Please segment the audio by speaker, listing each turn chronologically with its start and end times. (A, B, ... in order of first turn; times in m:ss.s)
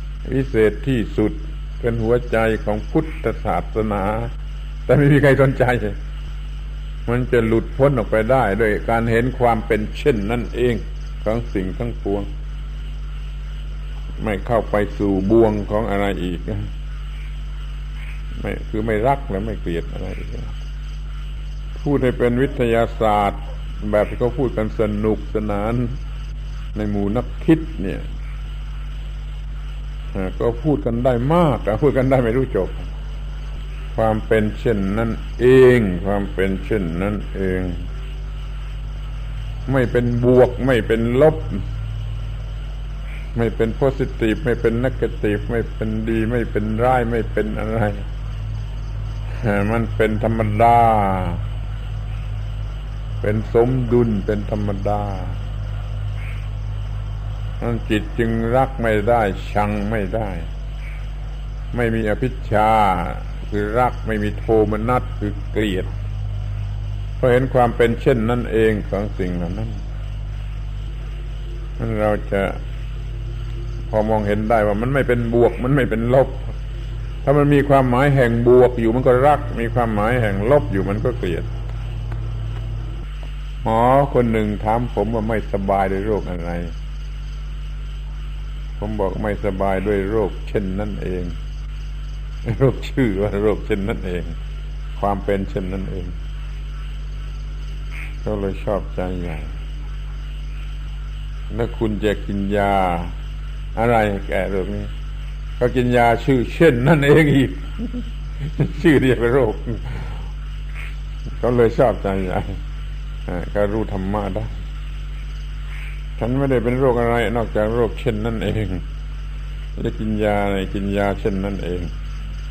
0:00.2-0:04.3 A
0:04.9-0:06.0 A
0:07.1-0:12.3 A
0:14.2-0:16.7 A
0:18.4-0:20.6 A
0:21.8-0:26.0 A
0:26.7-0:28.0 A
0:30.1-0:32.9 A
0:33.9-0:37.9 A
0:39.7-0:41.6 A
0:43.4-0:48.1 A
0:49.3-0:51.4 A
0:53.2-0:55.4 A
0:57.6-1:00.5 A
1:01.7-1:05.9 A
1:07.2-1:09.8 A
1:11.8-1:12.6 A
1:13.9-1:16.6 A
1:17.2-1:21.5 A
1:23.6-1:26.7 A
1:28.8-1:31.4 A
1:32.4-1:34.4 A
1:35.0-1:36.2 A
1:38.2-1:39.5 A
1:41.5-1:43.2 A
1:43.8-1:44.9 A
1:45.6-1:50.3 A
1:51.4-1:52.6 A
1:53.3-1:54.5 A
1:56.2-1:58.8 A
1:59.8-2:01.9 A